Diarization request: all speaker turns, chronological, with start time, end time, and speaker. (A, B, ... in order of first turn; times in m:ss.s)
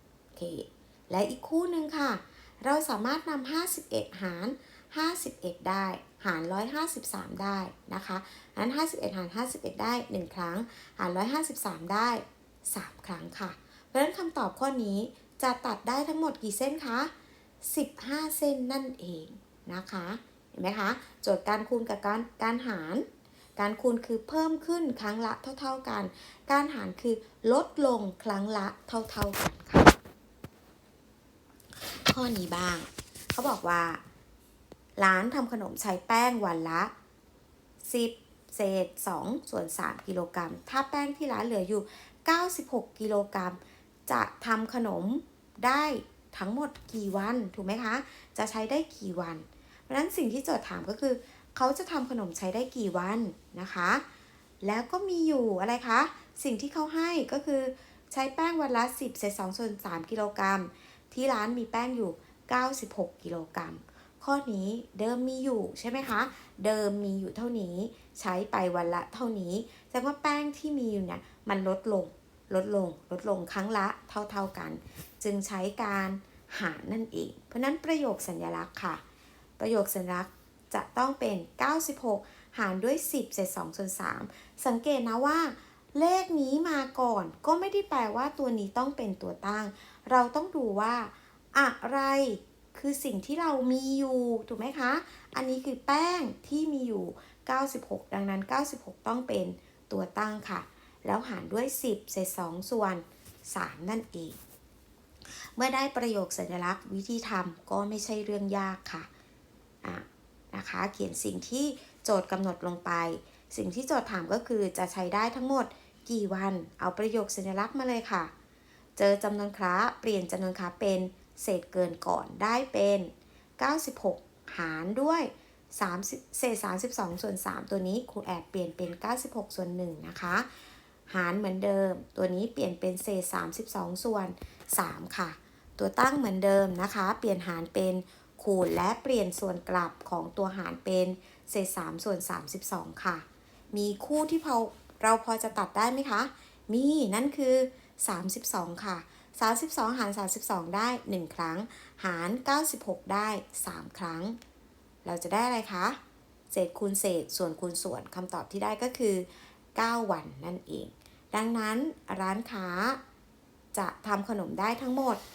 0:00.3-0:23.1 A
0:23.6-0:30.0 A
0:31.8-0:34.0 A
0:35.0-0:36.9 A
0:37.8-0:54.0 A
0:54.6-1:19.0 A
1:19.6-1:44.4 A
1:45.6-1:49.1 A
1:49.8-1:58.3 A
1:59.0-2:10.5 A
2:11.1-2:34.4 A
2:35.0-2:36.0 A
2:36.5-2:43.0 A
2:43.7-2:45.2 A